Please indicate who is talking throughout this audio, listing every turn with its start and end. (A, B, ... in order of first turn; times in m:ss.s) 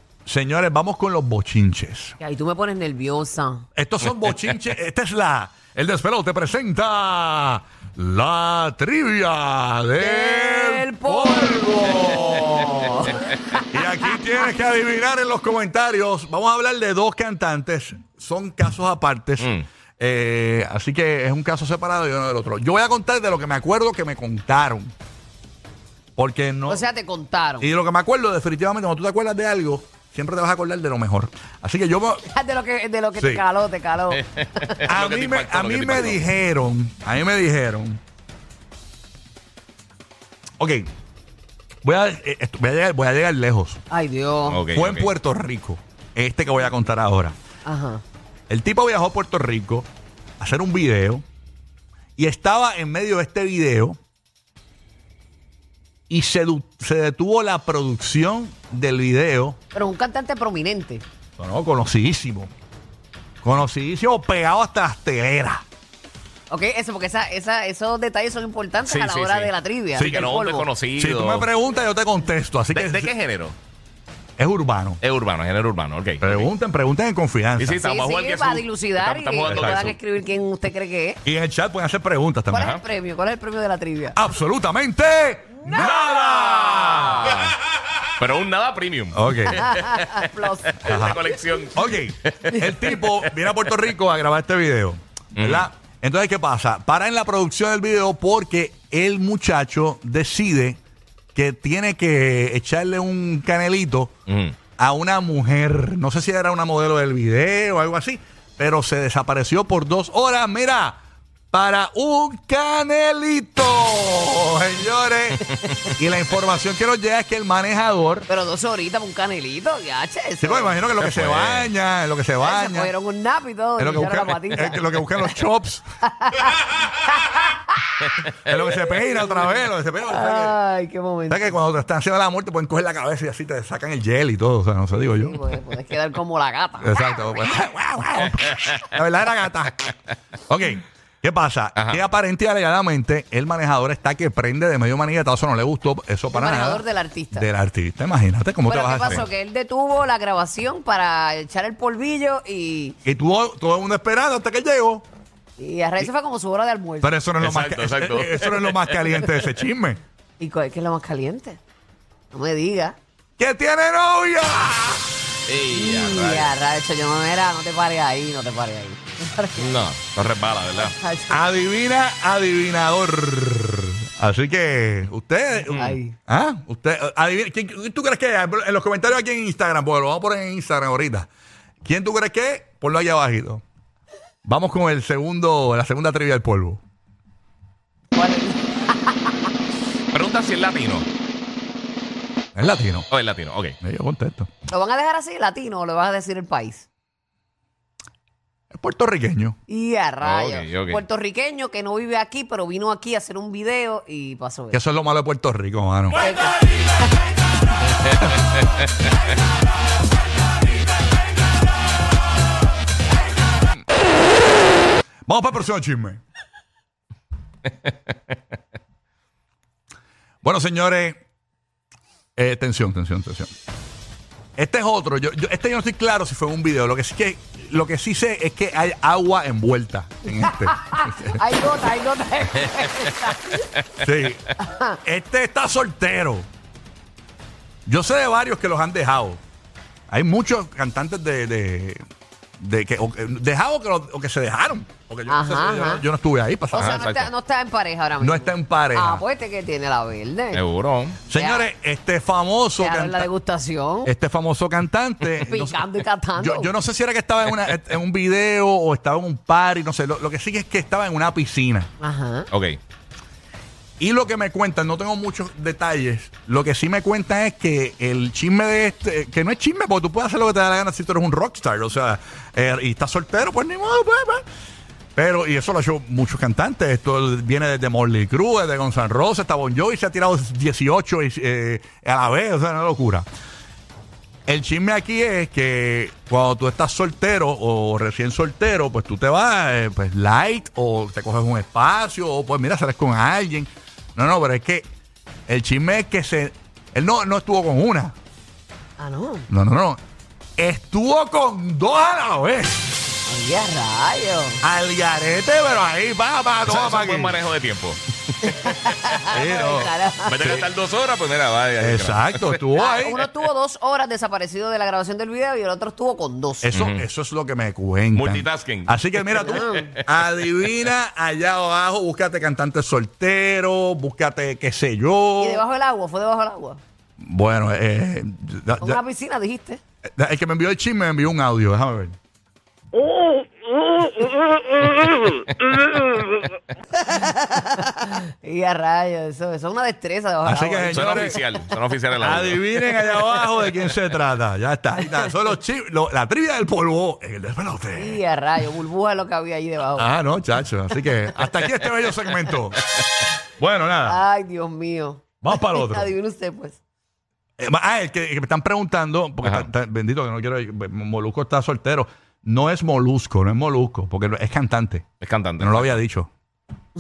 0:00.3-0:02.2 A
0:02.2-0:03.6 B
0:03.8-0:24.9 A
0:10.0-0:14.2 B
0:26.2-0:26.9 A
0:26.7-0:27.7 B
0:27.6-0:32.2 A
0:32.2-0:34.9 B
0:33.2-0:33.4 A
0:34.1-0:36.3 C
0:34.9-0:38.0 A
0:40.6-0:40.9 A
0:41.8-0:43.8 A
0:43.9-0:44.6 B
0:44.5-0:45.1 C
0:44.7-0:47.4 A
0:47.6-0:48.0 B
0:48.5-0:49.9 A
0:50.4-0:51.2 A
0:52.2-0:54.0 A
0:56.1-0:59.6 A
0:59.7-1:01.0 B
1:01.4-1:02.5 A
1:03.4-1:05.6 A
1:06.5-1:10.7 B
1:08.8-1:11.5 C
1:10.0-1:10.3 A
1:11.0-1:13.1 A
1:12.7-1:13.6 C
1:14.4-1:15.0 A
1:15.0-1:16.5 C
1:16.2-1:17.8 A
1:17.6-1:20.0 C
1:17.8-1:21.2 B
1:19.4-1:19.8 A
1:21.2-1:22.7 A
1:22.5-1:24.2 B
1:22.5-1:22.8 C
1:24.1-1:27.4 A
1:25.6-1:27.3 B
1:25.7-1:27.6 C
1:28.1-1:33.3 C
1:29.1-1:29.8 A
1:29.5-1:31.1 B
1:30.8-1:31.2 A
1:31.7-1:40.8 A
1:35.4-1:35.7 C
1:41.3-1:44.1 A
1:44.3-1:44.6 C
1:44.8-1:51.0 A
1:51.5-1:58.3 A
1:58.3-2:00.8 B
2:00.4-2:02.9 A
2:01.0-2:01.7 C
2:02.4-2:05.2 B
2:03.8-2:05.8 A
2:06.1-2:07.8 B
2:08.2-2:10.6 A
2:08.8-2:11.6 B
2:11.3-2:15.4 A
2:14.9-2:17.4 B
2:16.8-2:19.9 A
2:18.4-2:18.8 C
2:20.5-2:26.8 A
2:21.8-2:22.0 C
2:26.3-2:27.5 B
2:27.3-2:29.2 A
2:28.7-2:33.0 B
2:33.0-2:35.0 A
2:35.6-2:37.1 B
2:37.0-2:40.0 A
2:37.4-2:39.0 C
2:40.4-2:41.6 B
2:42.3-2:43.0 B
2:43.4-2:45.1 A
2:45.4-2:46.5 C
2:45.7-2:49.7 B
2:49.6-2:50.9 C
2:50.8-2:51.4 B
2:51.3-3:01.3 A
2:55.7-2:56.2 B
3:01.8-3:03.6 A
3:04.4-3:06.8 A
3:08.1-3:09.4 B
3:10.1-3:11.1 C
3:12.5-3:13.1 A
3:13.1-3:13.8 C
3:13.8-3:14.5 A
3:14.7-3:16.8 B
3:18.7-3:19.6 A
3:19.7-3:24.8 B
3:20.2-3:21.0 C
3:24.7-3:26.3 A
3:26.2-3:26.9 B
3:35.2-3:36.2 A
3:40.4-3:41.2 A
3:42.4-3:43.5 A
3:44.6-3:51.4 A
3:50.3-3:53.7 B
3:54.0-3:56.5 A
3:54.6-3:55.0 B
3:57.8-3:59.4 A
4:00.1-4:02.0 A
4:02.6-4:07.1 A
4:05.3-4:06.0 B
4:06.7-4:10.6 B
4:06.8-4:07.3 C
4:08.2-4:09.2 A
4:10.5-4:11.2 C
4:11.3-4:13.3 A
4:11.3-4:11.7 B
4:12.8-4:14.1 B
4:14.0-4:21.9 A
4:15.4-4:16.7 B
4:22.0-4:22.5 B
4:22.5-4:22.8 C
4:24.0-4:34.4 A
4:35.2-4:43.3 A
4:44.5-4:54.9 A
4:55.5-4:58.2 A
4:59.0-4:59.5 B
4:59.5-5:00.0 A
5:00.6-5:02.9 A
5:03.3-5:04.6 B
5:04.6-5:07.4 A
5:06.6-5:08.6 C
5:08.4-5:10.6 B
5:09.3-5:09.9 A
5:10.3-5:12.6 C
5:11.8-5:13.2 A
5:12.8-5:16.7 B
5:16.6-5:25.6 A
5:16.7-5:17.0 C
5:18.1-5:19.8 C
5:19.4-5:20.0 B
5:25.4-5:26.8 B
5:27.2-5:29.0 A
5:28.8-5:29.8 B
5:30.2-5:32.2 A
5:32.9-5:36.4 B
5:36.9-5:41.4 B
5:40.4-5:41.4 A
5:40.9-5:42.6 C
5:42.2-5:48.2 A
5:45.0-5:45.3 B
5:48.0-5:50.1 B
5:50.0-5:52.9 A
5:53.6-5:54.2 A
5:54.0-5:56.8 B
5:55.4-5:56.1 A
5:57.6-6:06.3 A
5:59.4-5:59.7 C
6:05.2-6:06.0 C